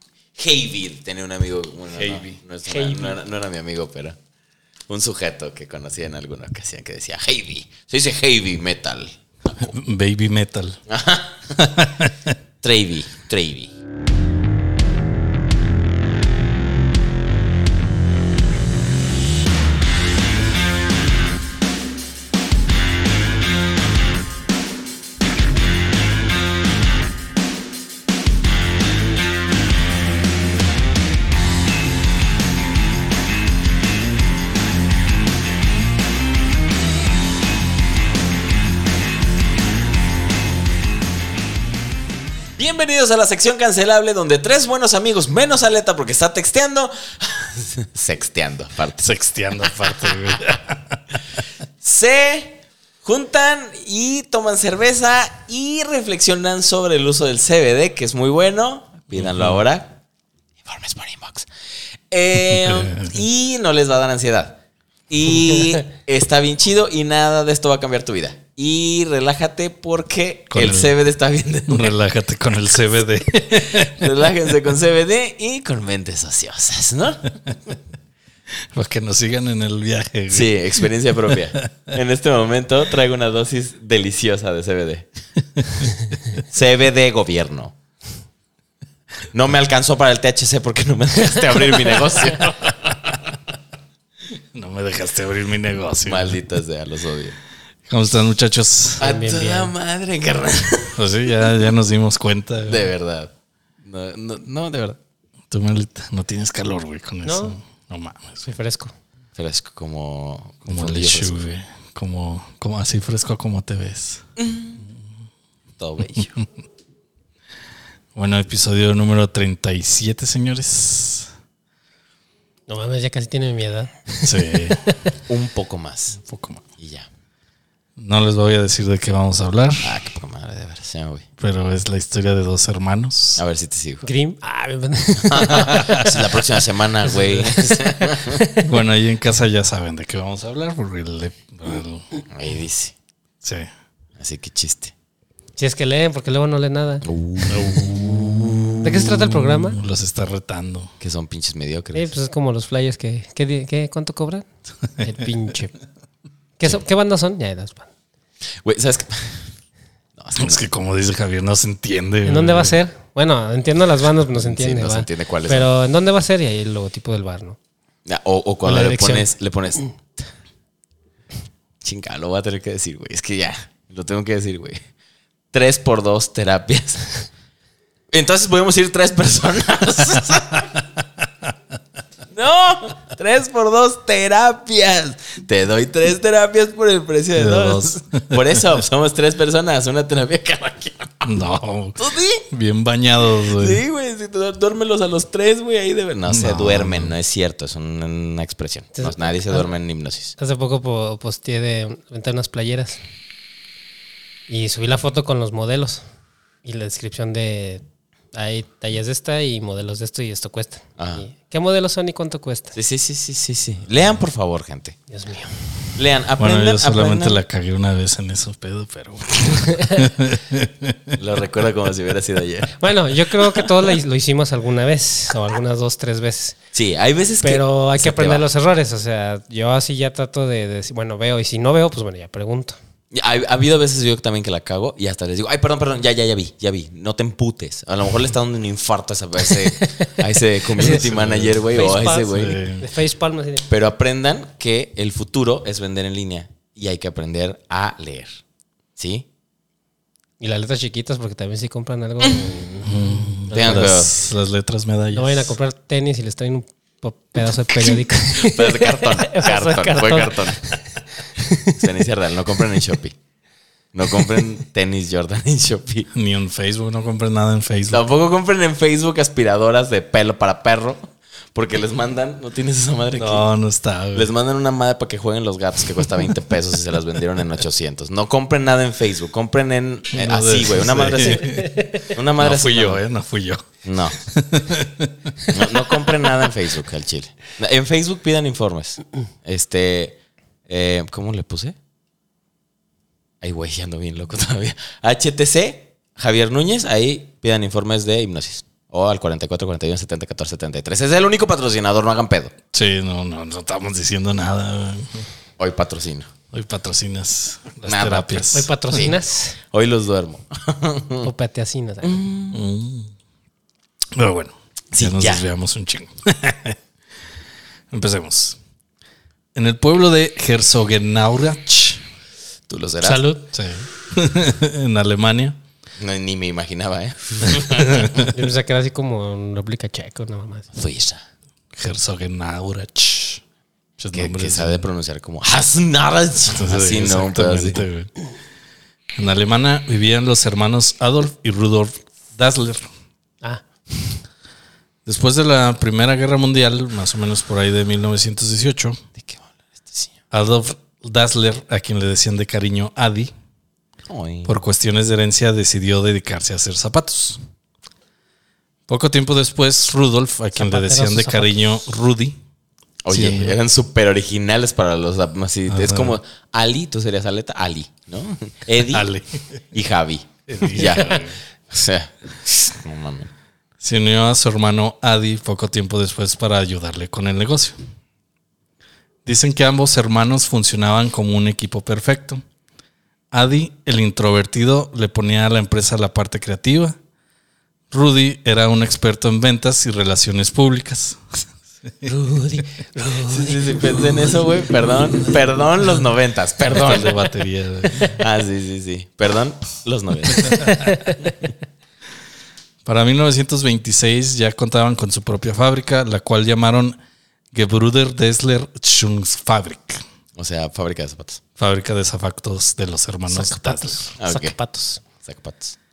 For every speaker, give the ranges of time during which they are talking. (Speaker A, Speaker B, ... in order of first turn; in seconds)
Speaker A: 0.3-4.2, 4.9-9.8, 10.9-11.4, 12.6-13.7, 42.6-50.2, 51.8-60.0, 60.6-61.5, 62.1-71.9, 73.5-77.4, 80.3-85.1, 86.3-87.7, 89.3-92.7, 96.0-97.3, 99.0-101.0, 102.6-105.0, 109.3-111.5, 114.4-114.8, 115.8-116.3, 125.3-126.2, 126.8-127.1, 129.8-131.2, 133.3-134.1, 135.2-138.4, 142.3-142.9, 144.2-144.9, 147.0-148.8, 151.0-152.1, 158.6-159.5, 160.2-160.6, 164.3-165.7, 168.1-169.9, 171.8-174.8, 175.5-177.3, 178.1-180.8, 182.3-191.3, 192.0-192.5, 193.4-200.3, 211.0-211.2, 212.8-214.9, 215.9-217.4, 221.2-223.7, 226.7-228.4, 233.1-242.6, 243.7-248.4, 249.0-249.2, 253.5-254.2, 257.8-260.6, 261.7-263.2, 263.9-266.1, 267.9-273.5, 274.1-283.0, 283.8-284.2, 285.5-291.8, 293.4-302.5, 305.6-306.3, 307.9-308.5, 309.7-311.3, 312.0-312.6, 314.9-315.5, 322.7-323.3, 326.0-328.0, 330.7-331.2, 334.1-337.8, 349.2-350.1, 354.1-354.6, 363.1-369.1, 369.7-373.3, 393.2-397.2, 397.9-401.3, 410.4-411.4, 414.2-414.6, 415.2-415.8
Speaker B: 1.9-2.4, 9.7-10.8, 11.5-12.3, 49.0-51.2, 59.2-59.6, 62.5-63.2, 70.5-70.9, 71.7-74.2, 78.7-81.7, 92.4-93.4, 94.3-96.4, 97.9-99.0, 101.0-102.9, 105.5-108.5, 110.7-114.2, 118.1-121.3, 124.2-124.8, 126.2-126.6, 128.0-129.9, 131.4-133.4, 135.7-136.2, 138.6-142.0, 143.4-143.7, 147.5-150.9, 160.4-162.8, 187.3-188.8, 191.2-193.8, 196.3-197.1, 216.4-221.2, 240.8-242.8, 252.8-255.5, 266.1-268.0, 273.2-274.3, 280.1-281.8, 282.4-285.4, 302.7-305.2, 306.5-309.1, 312.5-313.1, 314.1-316.8, 317.9-318.6, 319.6-322.0, 323.5-325.6, 327.4-328.4, 331.7-333.4, 334.0-334.9, 336.5-338.1, 339.1-342.9, 345.1-349.0, 350.3-353.3, 354.5-357.4, 358.9-362.4, 363.1-363.6, 365.7-366.2, 368.8-369.5, 370.5-371.4, 373.8-377.8, 379.2-382.4, 383.3-387.0, 387.9-392.1, 396.7-398.2, 400.5-400.8, 402.9-407.0, 407.5-410.0, 411.6-414.1
Speaker C: 2.7-3.2, 99.0-99.7, 107.2-107.6, 108.5-108.9, 122.7-125.1, 134.0-136.1, 137.2-138.8, 145.6-147.1, 148.8-149.8, 151.9-154.4, 155.0-155.8, 156.6-157.9, 162.2-167.6, 168.6-169.3, 199.0-199.7, 200.4-203.0, 204.5-206.0, 206.6-212.8, 215.1-215.7, 219.6-220.0, 222.8-226.6, 227.4-232.8, 239.5-240.1, 240.8-241.1, 241.7-243.7, 250.4-253.9, 255.1-261.9, 281.4-282.0, 308.5-309.6, 311.2-312.2, 323.0-323.5, 328.1-330.7, 360.6-361.6, 392.1-394.4, 400.5-401.2, 413.3-415.0